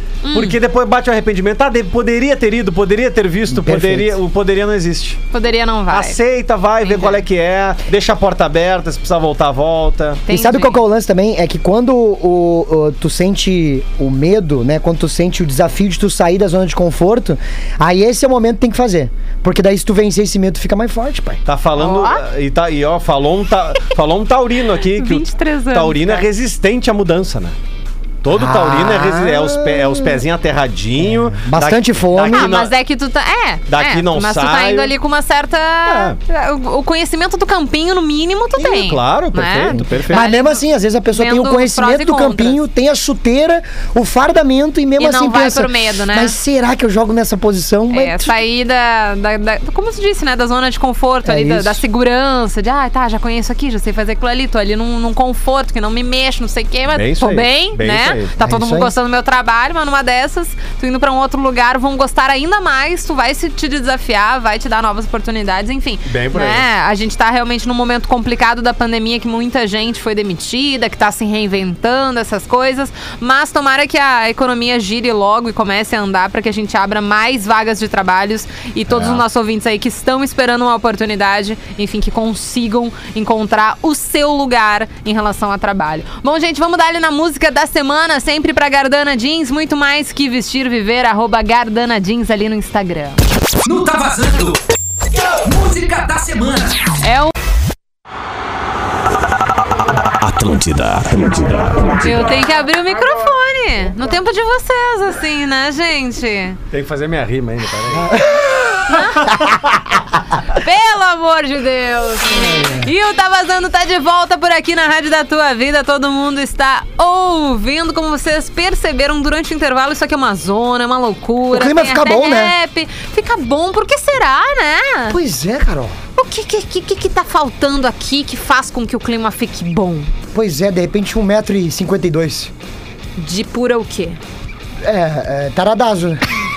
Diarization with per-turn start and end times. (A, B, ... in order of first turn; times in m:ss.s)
0:00.2-0:00.6 A
0:00.3-0:05.2 B
0:03.5-0:04.2 C
0:05.3-0:06.2 A
0:05.9-0:10.2 B
0:06.8-0:07.2 A
0:10.3-0:10.8 A
0:10.3-0:21.4 C
0:21.5-0:27.6 B
0:21.8-0:22.2 A
0:25.0-0:26.2 A
0:28.2-0:32.7 B
0:28.3-0:30.2 C
0:31.0-0:32.5 C
0:32.3-0:42.6 A
0:33.7-0:34.9 B
0:35.9-0:36.2 B
0:38.6-0:40.3 B
0:40.0-0:48.4 C
0:45.0-0:46.4 A
0:47.9-1:33.2 A
0:51.2-0:51.8 C
0:56.9-0:58.3 B
0:58.4-0:58.9 C
1:06.1-1:06.6 B
1:18.9-1:19.2 B
1:33.6-1:34.6 D
1:35.2-1:36.8 D
1:37.0-1:37.3 A
1:40.2-1:42.4 E
1:42.0-1:46.6 A
1:46.7-1:48.2 B
1:48.1-1:48.4 C
1:48.9-1:49.3 A
1:49.3-1:50.0 B
1:50.5-2:05.2 A
1:52.4-1:52.9 C
2:01.5-2:02.5 C
2:05.1-2:05.9 C
2:06.2-2:10.1 A
2:10.3-2:12.5 C
2:13.2-2:14.2 A
2:14.8-2:16.2 C